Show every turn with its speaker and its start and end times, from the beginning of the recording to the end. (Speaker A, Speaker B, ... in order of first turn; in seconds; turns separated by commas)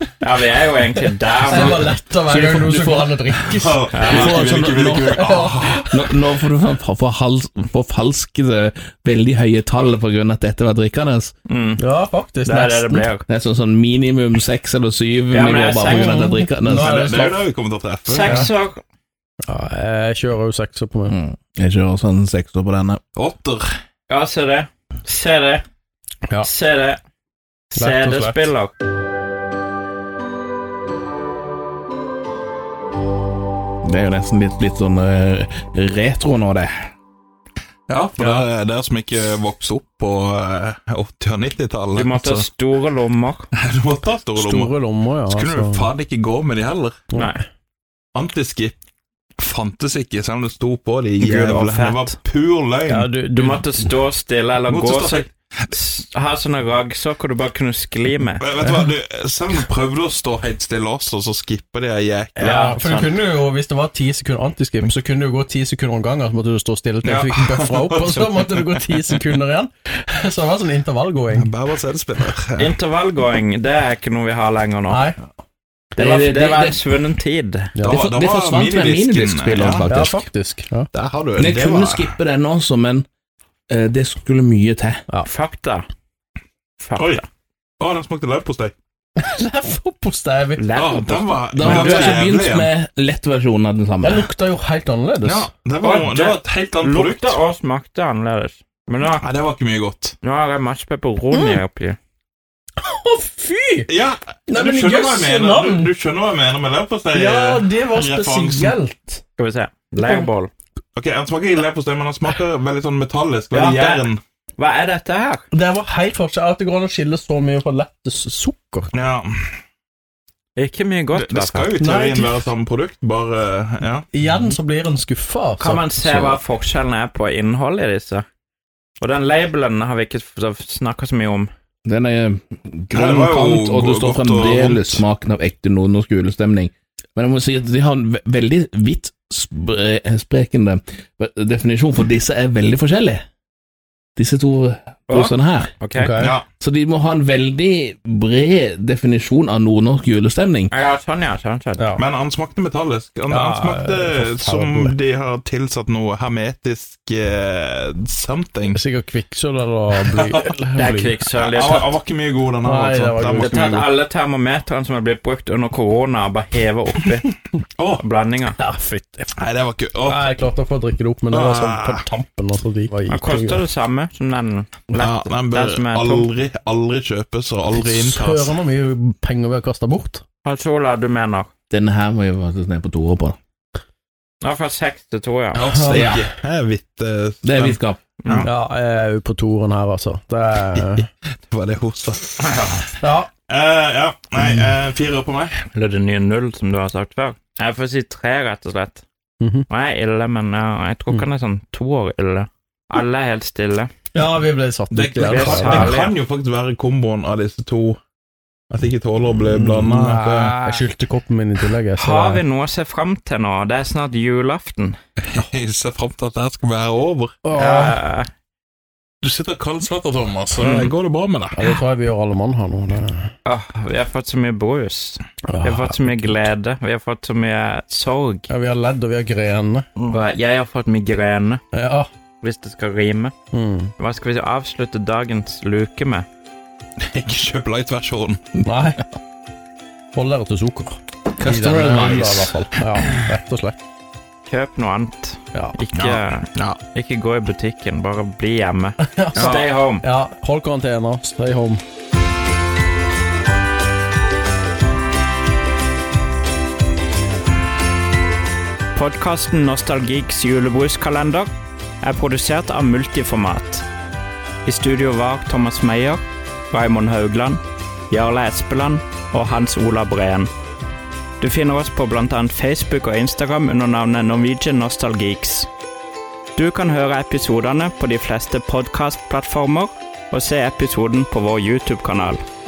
Speaker A: 0.2-1.9, Speaker B: 1.5-6.0, Speaker C: 2.3-3.2, Speaker D: 3.4-5.9, Speaker A: 3.9-4.3, Speaker C: 4.2-4.8, Speaker C: 5.9-11.3, Speaker A: 11.5-11.8, Speaker B: 11.8-13.1, Speaker A: 12.4-13.2, Speaker C: 13.3-17.4, Speaker A: 15.3-16.2, Speaker B: 15.6-17.4, Speaker D: 16.7-18.5, Speaker A: 18.1-18.8, Speaker B: 19.5-21.1, Speaker C: 21.1-23.0, Speaker D: 23.1-23.7, Speaker A: 24.1-25.6, Speaker A: 26.4-27.0, Speaker A: 27.7-28.7, Speaker B: 27.8-28.4, Speaker C: 33.8-36.9, Speaker D: 37.9-42.5, Speaker A: 41.9-43.5, Speaker D: 43.5-44.7, Speaker B: 44.4-45.9, Speaker D: 45.3-47.0, Speaker A: 47.1-47.4, Speaker D: 48.1-48.8, Speaker D: 49.4-53.1, Speaker A: 51.2-52.2, Speaker B: 52.9-53.7, Speaker A: 53.4-58.5, Speaker D: 54.7-55.7, Speaker D: 58.4-62.7, Speaker B: 62.4-71.5, Speaker A: 62.4-63.1, Speaker D: 67.0-69.2, Speaker D: 71.3-72.7, Speaker A: 72.6-75.0, Speaker B: 74.9-75.2, Speaker C: 76.0-76.8, Speaker A: 76.0-77.8, Speaker B: 77.8-78.0, Speaker D: 77.8-79.9, Speaker C: 77.8-80.2, Speaker B: 79.9-80.9, Speaker D: 80.9-82.1, Speaker C: 81.4-83.0, Speaker C: 83.7-85.0, Speaker A: 85.2-85.8, Speaker A: 86.8-87.2, Speaker D: 87.0-87.2, Speaker D: 87.8-88.7, Speaker B: 89.2-90.6, Speaker A: 90.6-92.3, Speaker D: 90.7-92.7, Speaker C: 91.5-94.3, Speaker B: 94.0-95.5, Speaker D: 95.2-97.4, Speaker A: 95.8-99.3, Speaker D: 99.2-100.2, Speaker A: 100.2-102.0, Speaker B: 101.3-101.6, Speaker B: 102.8-103.9, Speaker D: 103.9-108.8, Speaker B: 104.5-105.9, Speaker B: 107.1-109.2, Speaker A: 109.4-110.5, Speaker B: 110.0-110.3, Speaker D: 111.0-114.2, Speaker A: 113.5-115.4, Speaker B: 115.5-118.9, Speaker D: 118.9-119.5, Speaker A: 120.5-121.7, Speaker D: 121.1-124.1, Speaker B: 121.8-122.5, Speaker B: 124.1-126.4, Speaker A: 125.6-128.2, Speaker A: 129.0-131.5, Speaker C: 131.8-143.2, Speaker D: 132.9-135.0, Speaker C: 144.2-145.8, Speaker A: 145.1-146.3, Speaker B: 145.9-146.3, Speaker D: 146.2-146.4, Speaker C: 146.6-150.7, Speaker A: 150.7-151.8, Speaker B: 151.8-152.0, Speaker D: 151.9-158.8, Speaker B: 153.3-154.9, Speaker B: 158.7-161.2, Speaker D: 160.0-160.5, Speaker A: 160.7-161.9, Speaker D: 161.3-163.8, Speaker B: 162.6-163.9, Speaker A: 163.3-167.3, Speaker D: 167.8-168.0, Speaker A: 168.0-168.6, Speaker B: 168.6-169.3, Speaker D: 169.4-170.3, Speaker B: 170.0-173.6, Speaker D: 171.3-172.1, Speaker A: 173.1-176.3, Speaker D: 174.9-178.5, Speaker B: 177.7-180.2, Speaker A: 180.4-181.5, Speaker C: 181.7-183.4, Speaker A: 184.4-185.6, Speaker D: 185.5-188.5, Speaker B: 185.6-186.2, Speaker C: 187.4-188.0, Speaker B: 188.4-191.1, Speaker D: 191.5-192.7, Speaker A: 192.4-192.9, Speaker B: 193.0-193.3, Speaker D: 193.5-195.6, Speaker A: 195.7-199.0, Speaker B: 199.4-199.7, Speaker A: 199.7-203.9, Speaker B: 204.1-206.0, Speaker D: 204.9-208.0, Speaker A: 205.2-206.1, Speaker D: 208.7-210.6, Speaker B: 209.4-212.4, Speaker A: 211.9-214.9, Speaker D: 215.2-217.4, Speaker B: 217.4-218.0, Speaker A: 217.6-218.3, Speaker D: 219.2-221.7, Speaker A: 220.6-220.9, Speaker B: 221.5-223.3, Speaker A: 223.4-228.5, Speaker B: 225.5-225.9, Speaker B: 228.5-229.9, Speaker A: 230.1-231.6, Speaker B: 231.7-232.1, Speaker A: 232.4-233.3, Speaker B: 233.5-233.9, Speaker A: 234.0-236.2, Speaker D: 237.1-238.7, Speaker B: 238.6-239.0, Speaker B: 240.1-243.8, Speaker D: 241.4-242.5, Speaker C: 241.4-242.4, Speaker A: 244.4-250.1, Speaker D: 245.9-246.8, Speaker B: 249.0-251.8, Speaker A: 258.9-261.5, Speaker A: 262.0-263.9, Speaker A: 264.6-270.5, Speaker A: 271.4-275.7, Speaker A: 276.6-282.4